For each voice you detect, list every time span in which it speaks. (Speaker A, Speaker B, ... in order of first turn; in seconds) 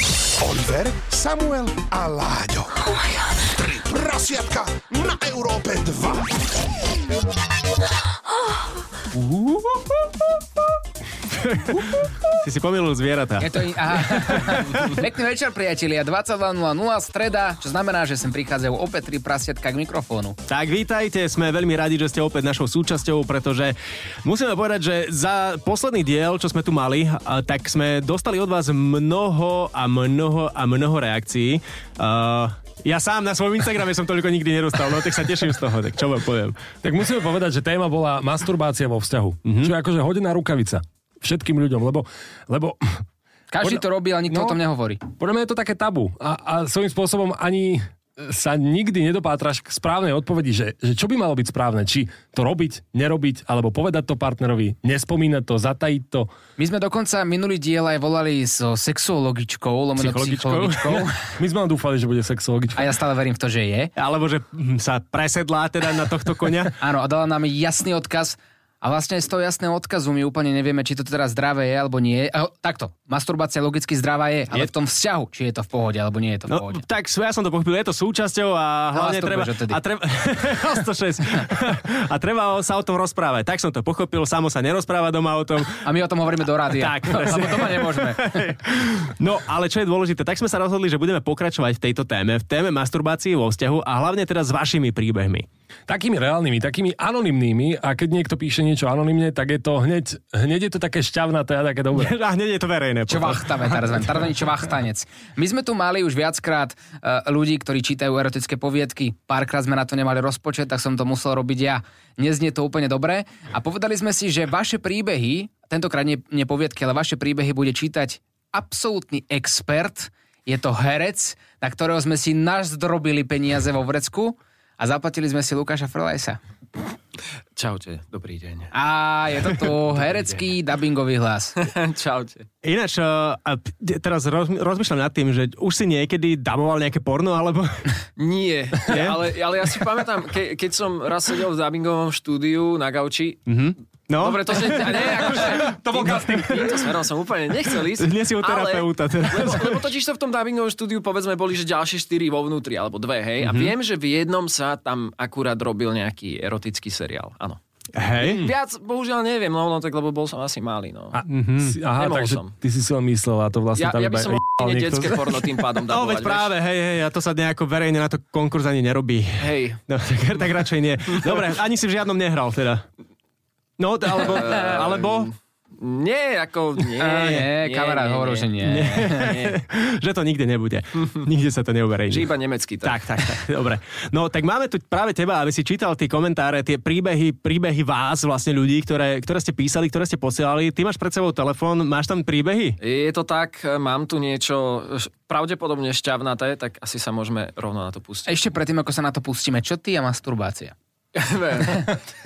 Speaker A: 0.4-2.9, 3.4-6.4
Speaker B: 9.1-9.8, 13.4-20.4, 43.5-45.0, 56.6-61.4, 62.8-63.9, 66.8-76.8, 78.9-79.8, 85.8-88.4, 103.1-126.4, 128.7-131.6, 177.0-179.4, 198.3-200.8
Speaker C: 11.3-15.0, 20.5-36.7, 39.5-39.7, 60.0-61.1, 64.0-66.8, 76.5-85.8, 86.7-95.5, 101.9-104.0, 132.6-137.9, 138.9-139.3, 143.5-146.8, 147.9-149.9, 153.4-153.7, 157.9-158.4, 161.3-161.8, 165.9-172.9, 173.8-175.3, 178.6-182.3, 182.8-192.8
Speaker D: 36.8-43.0, 43.6-44.6, 45.2-56.3, 61.4-63.0, 95.9-102.2, 145.0-146.9, 161.1-165.5
Speaker E: 127.6-128.7, 131.6-132.5, 138.2-143.4, 144.2-157.6, 158.2-161.2, 161.9-162.5, 163.8-166.5, 169.4-169.8, 171.2-171.4, 174.1-179.5, 182.1-183.1, 192.8-198.3, 201.1-202.0